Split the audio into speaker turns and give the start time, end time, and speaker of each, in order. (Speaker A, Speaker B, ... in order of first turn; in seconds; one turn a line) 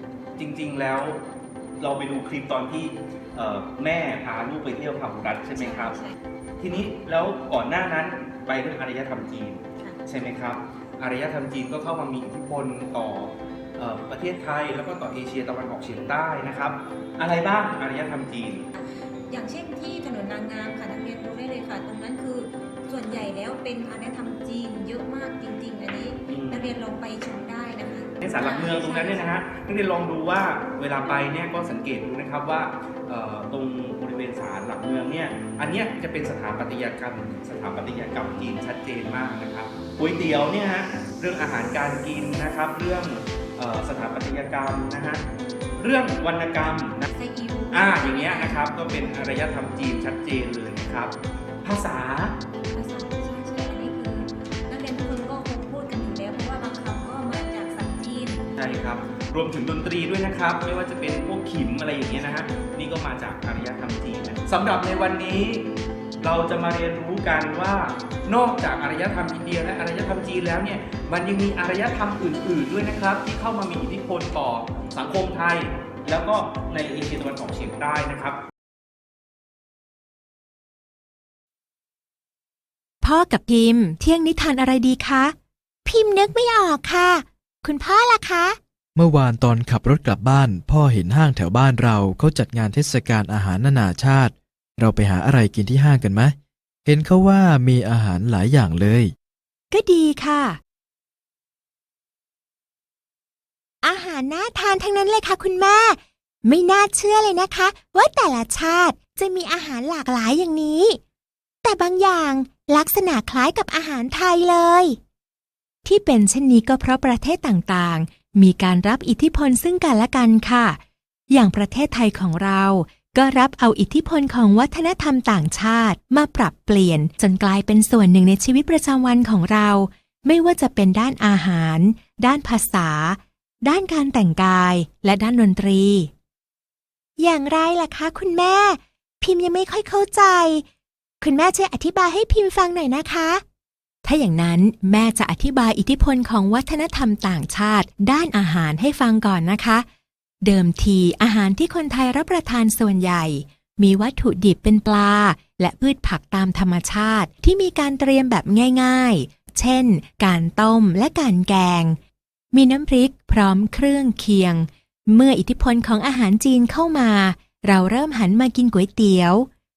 Speaker A: 0.4-1.2
Speaker A: 1.8-6.0
Speaker B: 5.6-6.2
Speaker A: 6.6-18.7
Speaker B: 18.7-29.3
Speaker A: 26.3-26.7
Speaker A: 28.2-45.2
Speaker A: 45.8-47.1
Speaker B: 47.1-48.6
Speaker A: 47.7-51.1
Speaker A: 51.6-52.3
Speaker B: 52.7-58.4
Speaker A: 58.5-65.7
Speaker A: 66.2-78.4
Speaker C: 83.0-85.3
Speaker C: 85.8-88.6
Speaker D: 89.0-94.3
Speaker D: 94.8-96.3
Speaker D: 96.9-99.0
Speaker C: 99.7-100.6
Speaker C: 103.8-111.0
Speaker C: 111.6-115.0
Speaker C: 115.8-120.8
Speaker C: 121.3-136.1
Speaker C: 137.2-140.6
Speaker C: 141.2-143.4
Speaker C: 144.0-149.8
Speaker C: 150.4-162.0
Speaker C: 162.5-169.5